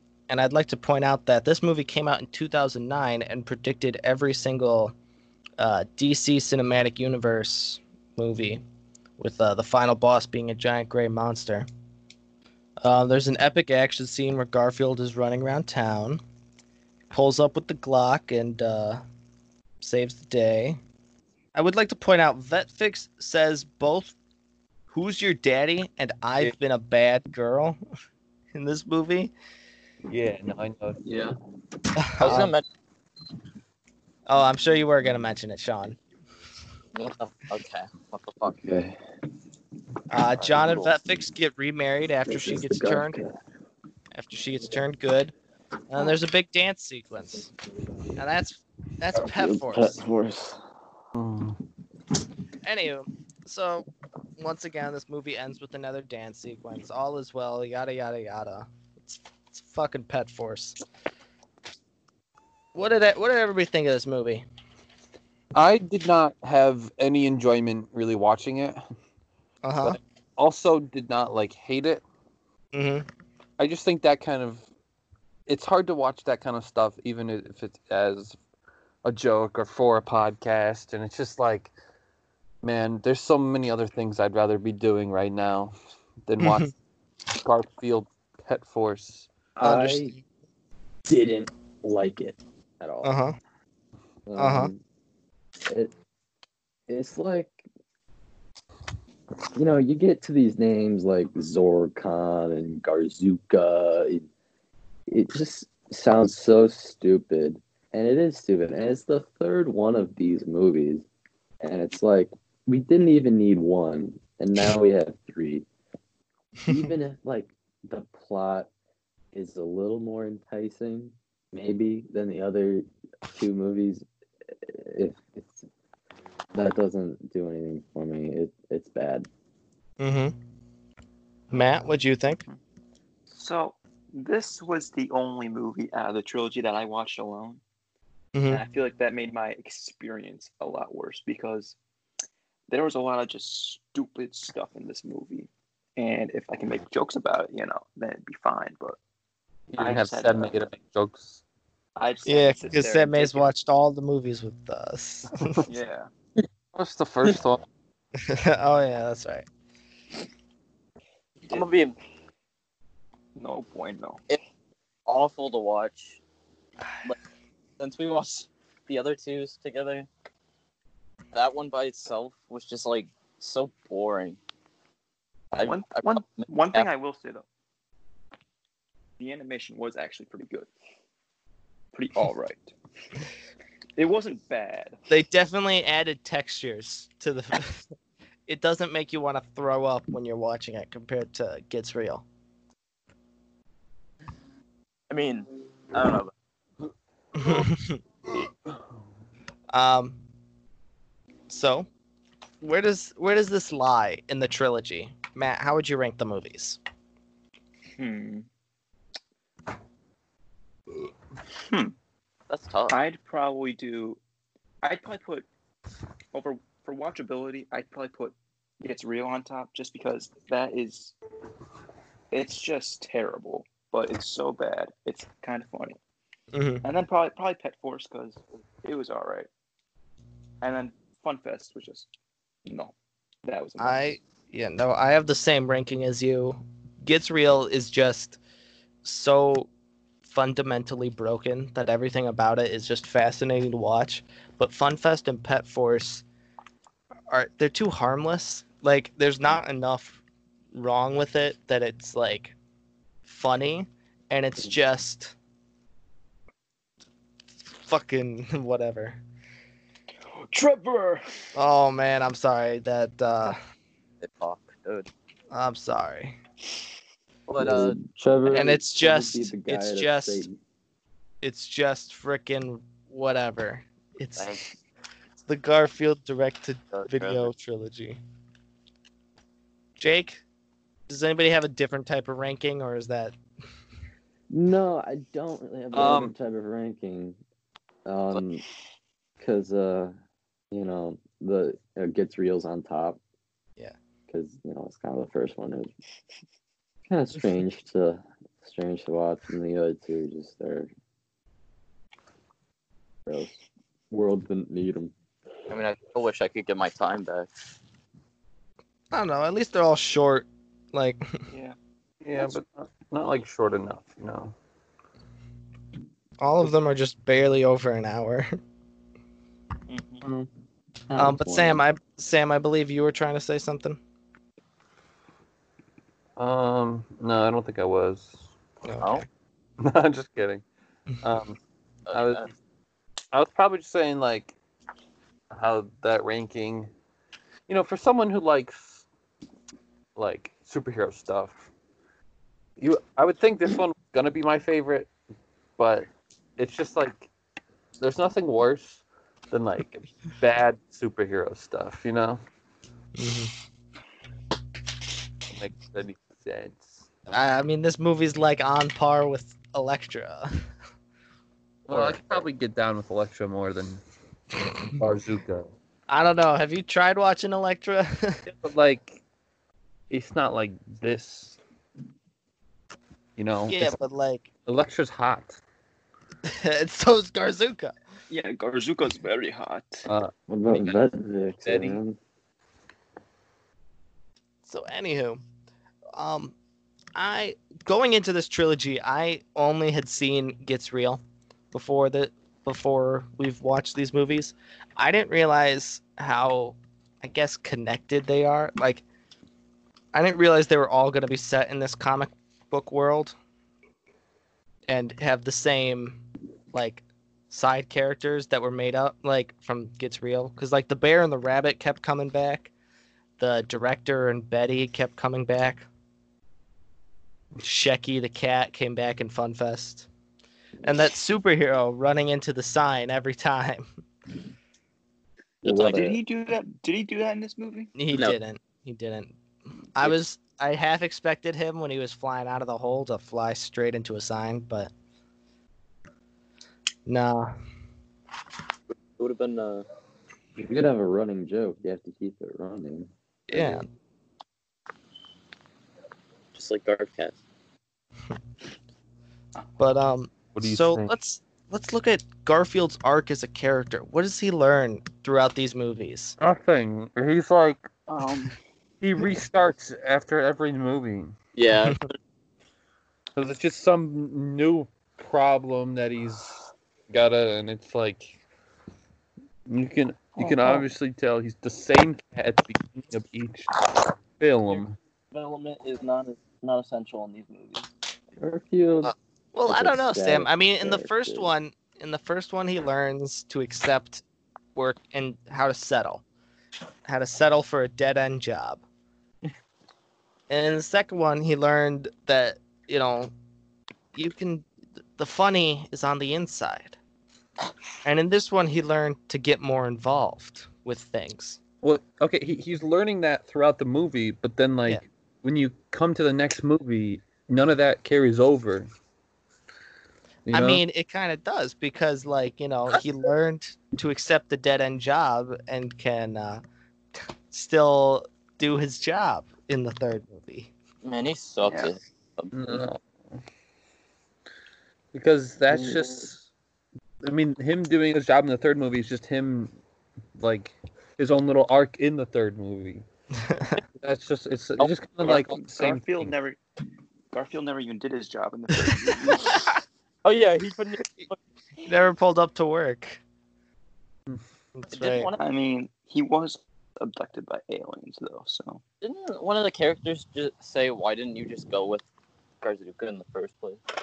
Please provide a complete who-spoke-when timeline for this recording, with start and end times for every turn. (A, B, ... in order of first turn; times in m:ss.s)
0:00.3-0:04.9 A
0:05.6-0:08.6 A
0:09.2-0:11.6 A
0:12.8-0:16.2 A
0:17.1-0:19.0 A
0:19.8-0:20.8 A
0:21.5-0:24.2 A
0:24.9-0:27.8 A
0:28.5-0:29.3 A
0:30.1-0:31.0 B
0:31.0-0:31.3 C
0:32.0-0:32.5 A
0:32.2-0:32.6 C
0:34.3-0:36.0 A
0:36.9-0:38.6 C
0:38.6-0:39.0 D
0:40.1-0:43.2 A
0:42.3-0:43.3 D
0:44.1-0:45.3 A
0:45.9-0:47.5 A
0:48.2-0:50.0 A
0:49.1-0:50.6 D
0:51.1-0:51.6 B
0:52.6-0:53.9 A
0:54.4-1:00.8 A
1:02.7-1:04.4 A
1:05.5-1:08.8 B
1:09.6-1:10.0 A
1:09.8-1:12.0 B
1:12.7-1:13.0 A
1:13.6-1:14.7 B
1:15.5-1:18.4 B
1:19.0-1:21.7 B
1:22.6-1:25.7 B
1:26.3-1:26.7 B
1:26.4-1:26.7 A
1:27.3-1:29.3 B
1:29.6-1:30.1 D
1:29.6-1:30.2 A
1:31.1-1:33.1 D
1:33.0-1:33.4 A
1:34.2-1:34.8 D
1:34.4-1:34.7 A
1:36.9-1:37.6 D
1:39.5-1:44.3 D
1:45.1-1:51.0 D
1:51.6-1:55.6 D
1:56.7-1:58.7 D
1:59.3-2:05.6 D
2:06.5-2:09.3 D
2:10.0-2:10.3 A
2:11.5-2:12.4 A
2:13.3-2:17.6 E
2:18.3-2:18.6 A
2:18.5-2:21.8 E
2:22.7-2:29.0 E
2:29.7-2:31.4 B
2:29.8-2:30.6 E
2:32.0-2:33.5 E
2:32.2-2:35.6 A
2:35.7-2:36.1 E
2:36.7-2:37.6 B
2:38.3-2:39.4 A
2:41.5-2:42.0 C
2:43.4-2:44.2 E
2:45.0-2:46.2 C
2:47.8-2:50.1 C
2:51.3-2:54.4 C
2:55.5-2:56.9 C
2:55.6-2:57.4 E
2:59.2-3:00.7 E
3:01.9-3:02.7 E
3:04.0-3:05.0 E
3:05.1-3:07.9 A
3:08.5-3:12.2 A
3:15.1-3:16.3 C
3:17.4-3:18.0 A
3:19.7-3:20.2 A
3:21.5-3:21.9 A
3:22.6-3:26.8 A
3:28.0-3:28.5 E
3:31.6-3:31.9 E
3:32.5-3:33.0 C
3:32.9-3:34.2 E
3:34.8-3:35.5 E
3:36.3-3:41.2 E
3:42.3-3:46.0 E
3:46.5-3:46.8 A
3:46.8-3:49.5 E
3:50.6-3:52.1 E
3:52.6-3:54.2 E
3:53.8-3:58.4 A
3:59.0-3:59.7 A
4:00.3-4:06.2 A
4:07.3-4:10.2 A
4:10.7-4:12.5 A
4:13.2-4:15.3 A
4:17.9-4:19.2 A
4:20.4-4:21.2 E
4:21.5-4:23.6 A
4:24.2-4:25.1 C
4:25.5-4:26.3 A
4:27.5-4:28.0 C
4:27.6-4:30.6 D
4:28.5-4:30.4 A
4:31.4-4:34.6 A
4:34.4-4:34.7 C
4:35.4-4:38.2 A
4:36.9-4:37.5 C
4:40.0-4:40.4 A
4:41.1-4:43.3 A
4:44.5-4:47.4 D
4:45.9-4:46.3 B
4:48.0-4:48.6 D
4:49.4-4:50.1 D
4:50.7-4:53.2 D
4:54.3-4:55.9 D
4:57.1-5:00.9 D
5:03.2-5:03.5 D
5:04.1-5:05.1 D
5:05.7-5:07.5 C
5:09.1-5:11.2 A
5:11.5-5:11.8 E
5:12.2-5:14.5 B
5:16.4-5:18.6 A
5:19.9-5:20.2 E
5:21.1-5:21.8 D
5:21.1-5:24.0 A
5:26.4-5:28.4 B
5:28.8-5:29.2 A
5:29.8-5:30.6 B
5:31.2-5:31.6 B
5:32.1-5:32.5 C
5:32.1-5:32.5 B
5:33.3-5:34.5 B
5:35.5-5:36.9 B
5:37.7-5:39.0 B
5:40.2-5:41.6 B
5:42.8-5:45.1 B
5:45.8-5:47.3 B
5:48.0-5:52.4 B
5:53.2-5:53.5 A
5:55.5-5:57.0 B
5:57.3-6:00.5 A
6:01.9-6:02.4 A
6:01.9-6:04.0 B
6:04.8-6:05.7 B
6:06.1-6:08.4 A
6:08.4-6:09.2 B
6:10.1-6:11.6 B
6:13.4-6:14.0 B
6:13.7-6:14.4 A
6:14.6-6:15.6 B
6:16.4-6:17.9 A
6:18.3-6:20.1 E
6:20.1-6:21.0 B
6:20.5-6:22.2 D
6:21.6-6:22.0 B
6:24.6-6:25.4 A
6:26.2-6:26.5 A
6:27.1-6:39.0 A
6:40.1-6:43.3 A
6:44.9-6:46.2 A
6:46.7-6:52.7 A
6:53.4-6:55.8 A
6:57.6-7:00.1 A
7:00.8-7:03.8 A
7:05.6-7:07.9 E
7:05.6-7:06.2 D
7:08.0-7:09.4 A
7:08.1-7:08.4 C
7:09.9-7:14.9 A
7:17.0-7:17.5 A
7:18.9-7:19.8 C
7:20.6-7:23.8 D
7:23.5-7:23.9 A
7:26.5-7:27.4 C
7:29.8-7:36.4 A
7:30.5-7:31.1 B
7:36.4-7:37.9 B
7:38.1-7:38.6 E
7:39.0-7:41.3 B
7:41.5-7:42.1 C
7:43.4-7:48.4 B
7:49.7-7:53.9 B
7:50.4-7:50.8 E
7:54.4-7:55.0 B
7:55.3-7:57.9 C
7:58.4-7:59.1 D
7:59.0-8:04.2 A
7:59.6-8:01.5 D
8:04.7-8:06.2 A
8:07.0-8:08.8 A
8:10.5-8:13.3 A
8:14.1-8:17.0 A
8:18.0-8:21.6 A
8:21.8-8:28.9 B
8:30.4-8:30.8 B
8:30.5-8:36.6 A
8:37.5-8:40.7 A
8:41.0-8:42.5 C
8:41.6-8:42.0 E
8:42.5-8:43.4 B
8:45.1-8:46.4 B
8:45.7-8:46.2 D
8:47.2-8:49.8 B
8:50.4-8:53.0 B
8:53.4-8:53.8 A
8:54.0-8:56.3 B
8:55.2-8:56.6 E
8:57.3-8:59.7 E
9:00.2-9:01.4 C
9:01.8-9:03.2 A
9:04.7-9:05.3 A
9:04.9-9:05.4 C
9:05.4-9:08.8 E
9:09.0-9:12.1 C
9:12.6-9:13.8 C